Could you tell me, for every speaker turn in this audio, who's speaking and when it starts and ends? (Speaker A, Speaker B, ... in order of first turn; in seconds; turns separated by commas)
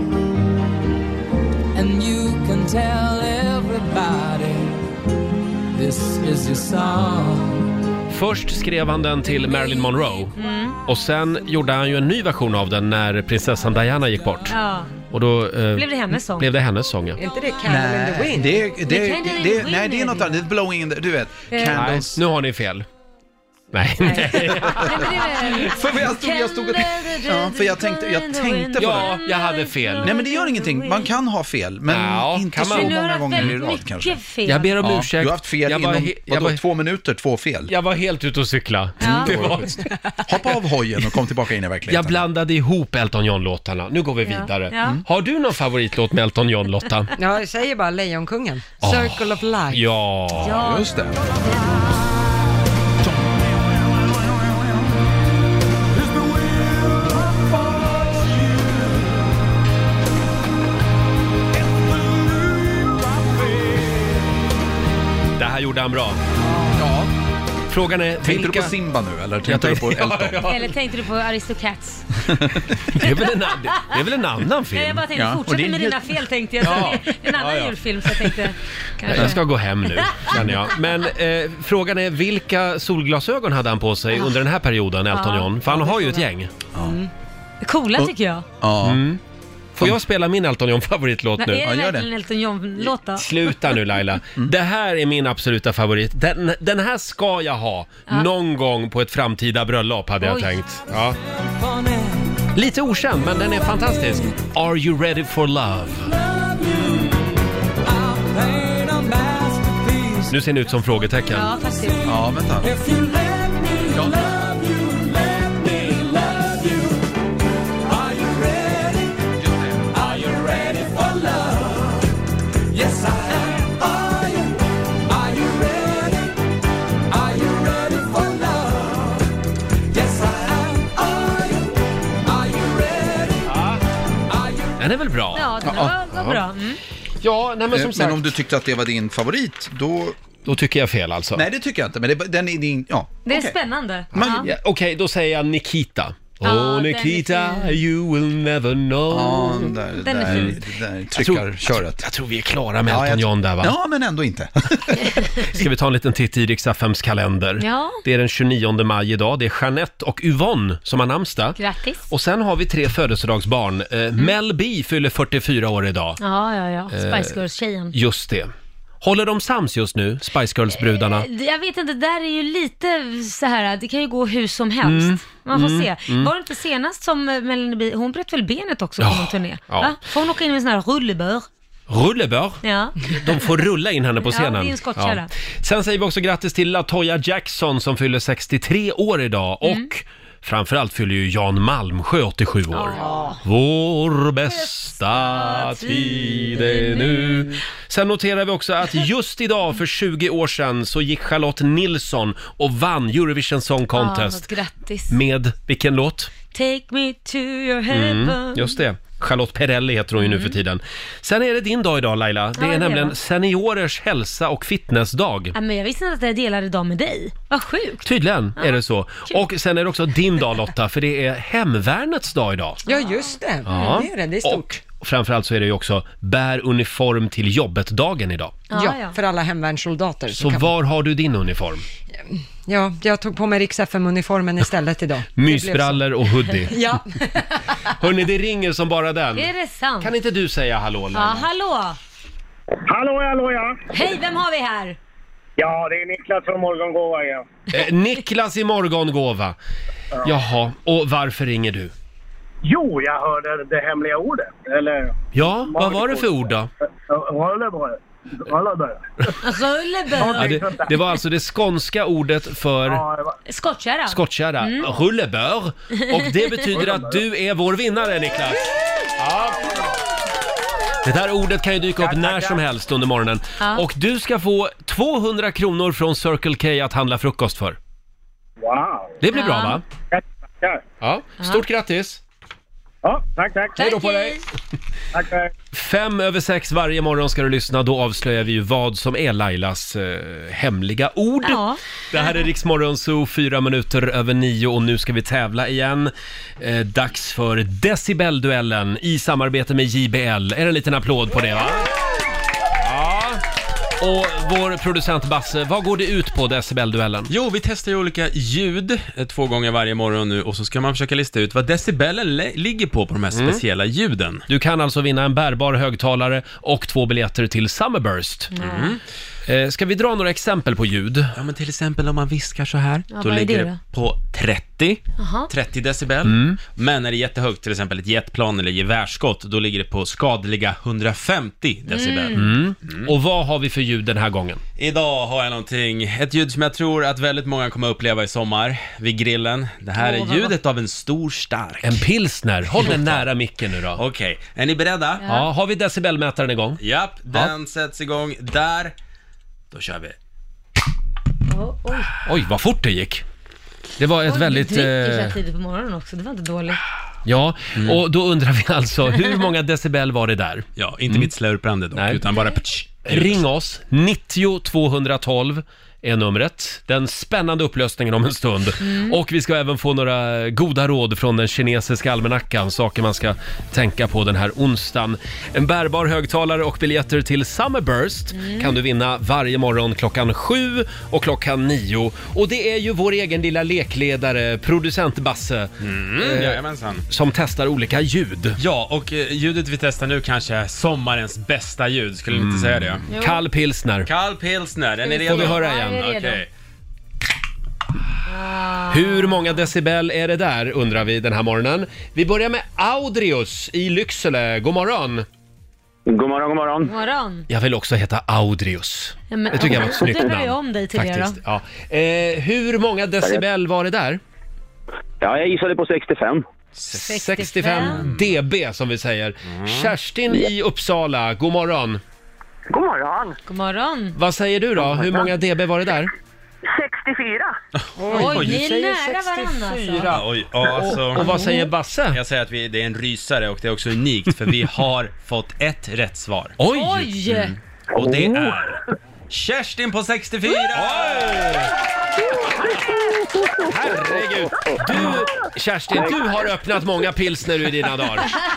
Speaker A: 1.7-4.8, Speaker A: 5.7-7.7, Speaker B: 8.1-10.3, Speaker C: 9.4-10.8, Speaker B: 10.8-14.6, Speaker C: 14.5-14.9, Speaker B: 15.1-17.2, Speaker C: 15.7-16.5, Speaker D: 17.2-18.7, Speaker E: 17.6-22.2, Speaker C: 18.8-20.4, Speaker C: 21.5-21.8, Speaker B: 21.7-22.9, Speaker B: 23.7-25.0, Speaker C: 24.1-31.1, Speaker E: 24.3-29.2, Speaker B: 28.8-30.1, Speaker E: 30.0-34.2, Speaker B: 31.9-33.5, Speaker C: 32.5-34.7, Speaker B: 34.4-36.6, Speaker E: 34.8-37.7, Speaker B: 37.7-39.8, Speaker C: 39.0-39.3, Speaker E: 39.1-42.2, Speaker B: 41.9-47.1, Speaker C: 44.2-45.0, Speaker D: 47.2-49.9, Speaker B: 48.8-50.6, Speaker C: 50.4-50.9, Speaker E: 50.5-51.2, Speaker E: 53.0-53.5, Speaker B: 65.4-66.2, Speaker D: 66.4-66.8, Speaker E: 66.7-67.1, Speaker B: 67.7-68.7, Speaker E: 68.2-70.5, Speaker B: 69.4-70.6, Speaker C: 70.4-72.2, Speaker E: 72.3-72.6, Speaker B: 72.9-75.0, Speaker C: 73.0-73.9, Speaker C: 74.7-79.4, Speaker E: 75.1-76.2, Speaker B: 76.6-77.7, Speaker B: 79.1-86.5, Speaker E: 79.1-79.3, Speaker C: 85.1-86.2, Speaker C: 87.6-88.4, Speaker E: 88.0-89.0, Speaker B: 88.8-89.2, Speaker B: 89.8-91.6, Speaker C: 91.4-93.3, Speaker E: 91.6-92.1, Speaker B: 93.1-101.2, Speaker C: 100.2-100.5, Speaker A: 101.2-102.4, Speaker B: 102.5-106.2, Speaker A: 106.2-107.0, Speaker A: 107.8-110.3, Speaker B: 110.3-111.5, Speaker C: 111.3-112.1, Speaker A: 111.7-117.0, Speaker E: 112.0-112.7, Speaker A: 117.8-119.2, Speaker A: 119.9-122.0, Speaker A: 122.7-124.5, Speaker A: 125.1-126.3, Speaker A: 127.1-129.2, Speaker A: 129.9-131.7, Speaker A: 132.2-133.5, Speaker B: 133.4-133.8, Speaker A: 134.3-134.8, Speaker B: 134.8-136.4, Speaker C: 135.3-136.8, Speaker E: 135.6-135.9, Speaker B: 137.2-138.3, Speaker E: 137.7-140.2, Speaker B: 140.4-141.4, Speaker E: 141.3-143.6, Speaker C: 143.2-144.5, Speaker E: 144.1-144.5, Speaker B: 144.2-149.7, Speaker C: 146.4-147.8, Speaker E: 149.1-152.0, Speaker C: 150.0-150.6, Speaker B: 150.2-150.6, Speaker B: 151.2-153.8, Speaker E: 152.8-155.1, Speaker B: 155.4-166.2, Speaker C: 157.6-158.0, Speaker C: 161.6-162.0, Speaker C: 166.2-167.9, Speaker B: 166.9-167.4, Speaker B: 167.9-168.5, Speaker B: 169.0-171.3, Speaker C: 170.8-181.4, Speaker B: 174.8-176.3, Speaker B: 179.0-179.9, Speaker B: 181.9-204.5, Speaker C: 182.6-183.1, Speaker C: 184.2-185.3, Speaker C: 192.7-193.4, Speaker C: 194.5-197.6, Speaker C: 203.9-205.2, Speaker B: 205.1-206.3, Speaker C: 206.5-208.7, Speaker B: 207.9-215.5, Speaker C: 210.2-210.6, Speaker C: 212.6-213.1, Speaker C: 215.5-218.1, Speaker B: 218.0-222.8, Speaker C: 218.6-219.4, Speaker C: 222.9-223.2, Speaker D: 222.9-224.8, Speaker B: 223.6-228.6, Speaker C: 228.7-229.2, Speaker D: 228.7-230.7, Speaker B: 230.3-231.8, Speaker D: 232.3-236.0, Speaker B: 235.3-236.8, Speaker D: 236.7-237.8, Speaker B: 237.9-241.5, Speaker C: 239.3-240.1, Speaker C: 241.1-242.0, Speaker F: 242.9-243.8, Speaker C: 243.9-245.0, Speaker F: 245.6-247.4, Speaker B: 247.7-249.6, Speaker B: 250.2-251.9, Speaker F: 252.6-255.2, Speaker B: 255.3-256.7, Speaker F: 255.7-256.5, Speaker F: 257.1-259.4, Speaker C: 259.4-260.8, Speaker F: 260.1-260.9, Speaker B: 260.3-263.0, Speaker F: 262.9-263.4, Speaker C: 263.5-264.9, Speaker B: 264.1-269.7, Speaker C: 266.1-266.6, Speaker F: 266.7-267.2, Speaker B: 271.0-277.8, Speaker F: 272.0-272.6, Speaker F: 278.6-279.2, Speaker B: 279.2-279.8, Speaker C: 279.3-279.8, Speaker F: 280.1-280.8, Speaker B: 281.0-282.2, Speaker F: 283.0-283.8, Speaker B: 283.8-284.4, Speaker C: 283.8-284.4, Speaker F: 285.1-285.5, Speaker B: 285.7-301.9, Speaker C: 291.4-291.8, Speaker B: 302.8-303.4, Speaker B: 304.0-307.3, Speaker G: 307.3-314.4, Speaker B: 313.3-313.6, Speaker B: 314.5-318.5, Speaker C: 318.5-318.9, Speaker G: 318.6-319.0, Speaker B: 319.5-321.3, Speaker G: 321.4-333.1, Speaker C: 323.1-323.8, Speaker C: 325.2-325.5, Speaker B: 326.2-326.6, Speaker C: 331.9-332.5, Speaker B: 332.3-334.6, Speaker G: 334.8-342.0, Speaker C: 340.0-340.5, Speaker B: 341.8-344.0, Speaker G: 342.7-343.3, Speaker G: 343.9-345.2, Speaker C: 345.2-345.5, Speaker B: 345.2-346.8, Speaker G: 346.8-348.9, Speaker G: 349.7-350.1, Speaker C: 351.5-352.1, Speaker B: 352.2-353.2, Speaker B: 354.0-355.4, Speaker C: 354.3-356.8, Speaker B: 357.2-361.3, Speaker G: 360.8-363.4, Speaker B: 361.9-362.2, Speaker B: 363.1-388.6, Speaker C: 368.8-369.2, Speaker C: 378.3-378.8, Speaker G: 385.8-387.0, Speaker G: 388.6-393.0, Speaker B: 392.3-394.1, Speaker C: 393.1-393.4, Speaker G: 394.1-396.5, Speaker C: 395.0-396.4, Speaker B: 395.2-396.0, Speaker C: 398.3-399.5, Speaker B: 398.9-405.2, Speaker H: 406.2-406.9, Speaker C: 406.9-407.5, Speaker B: 407.5-414.2, Speaker C: 409.3-411.4, Speaker H: 415.2-416.4, Speaker B: 416.8-422.0, Speaker C: 416.9-418.0, Speaker G: 417.9-418.2, Speaker G: 419.5-419.9, Speaker I: 422.7-423.4, Speaker C: 423.5-424.2, Speaker B: 424.1-426.1, Speaker I: 426.7-427.5, Speaker G: 427.8-428.6, Speaker D: 428.0-428.5, Speaker B: 428.1-432.2, Speaker C: 428.1-430.1, Speaker G: 430.1-431.4, Speaker C: 431.1-431.7, Speaker G: 432.1-436.6, Speaker B: 436.6-437.3, Speaker C: 436.7-437.5, Speaker G: 437.3-441.6, Speaker B: 440.7-441.7, Speaker I: 442.4-443.7, Speaker B: 443.6-448.4